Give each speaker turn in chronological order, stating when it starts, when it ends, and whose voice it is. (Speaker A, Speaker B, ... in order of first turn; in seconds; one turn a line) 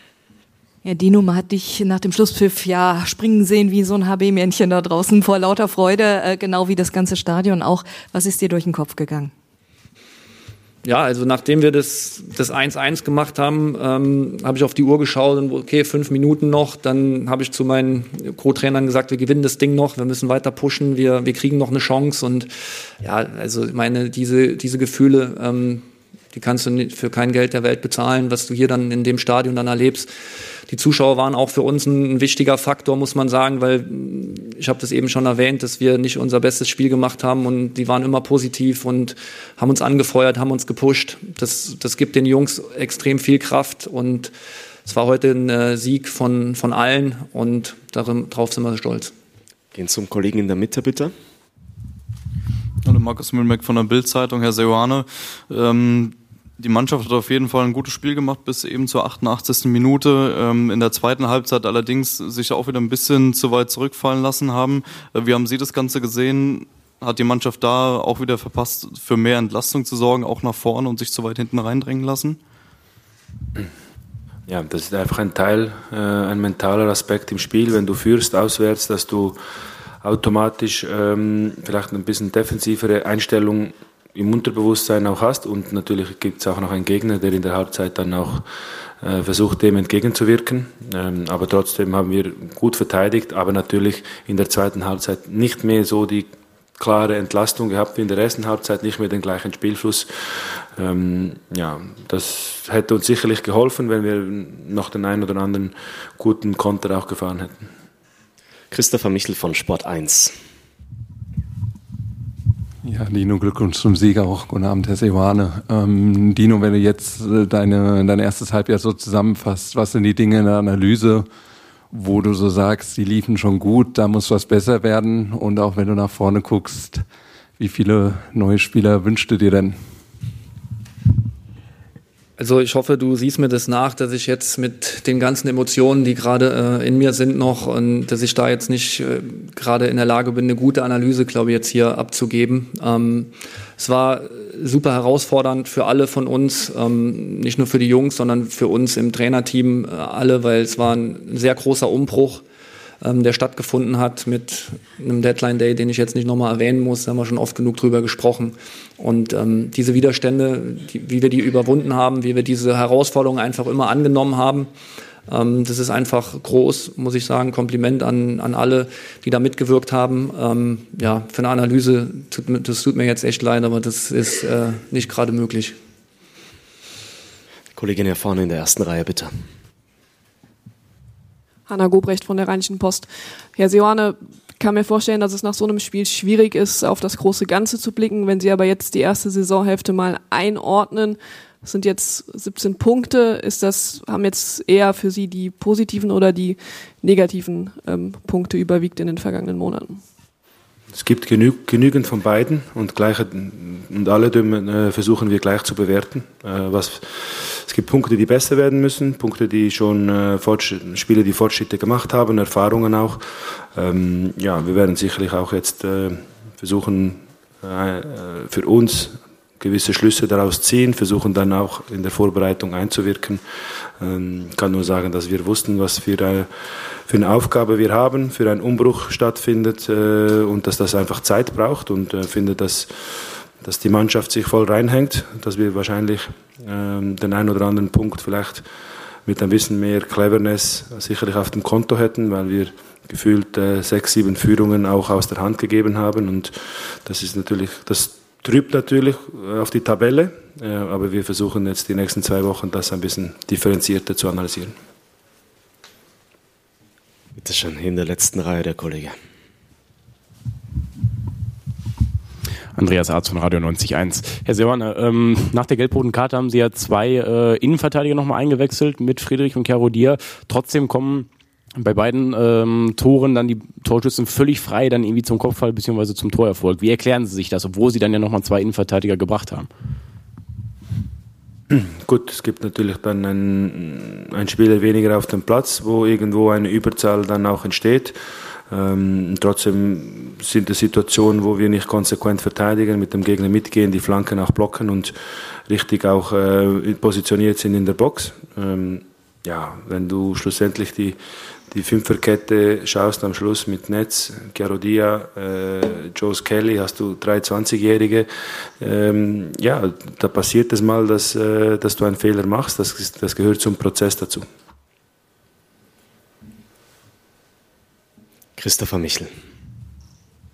Speaker A: 0.8-9.3
Speaker B: 10.8-22.5
Speaker B: 23.0-30.1
Speaker B: 30.7-44.3
Speaker B: 44.9-49.1
Speaker C: 49.7-51.1
Speaker D: 52.8-72.4
Speaker E: 74.5-79.4
Speaker E: 80.0-88.4
Speaker E: 89.0-107.7
Speaker C: 108.7-110.3
Speaker F: 112.8-121.2
Speaker F: 121.9-127.0
Speaker F: 127.6-129.7
Speaker B: 132.4-152.4
Speaker B: 153.0-164.7
Speaker B: 165.3-175.8
Speaker C: 177.8-179.3
Speaker G: 181.7-200.0
Speaker E: 200.9-213.2
Speaker E: 213.7-223.4
Speaker E: 224.0-226.5
Speaker E: 227.1-238.6
Speaker E: 239.2-254.7
Speaker C: 257.4-259.1
Speaker H: 262.7-279.7
Speaker E: 281.7-288.2
Speaker E: 288.7-295.1
Speaker E: 295.7-301.2
Speaker E: 301.7-308.3
Speaker E: 308.8-314.4
Speaker C: 318.6-319.3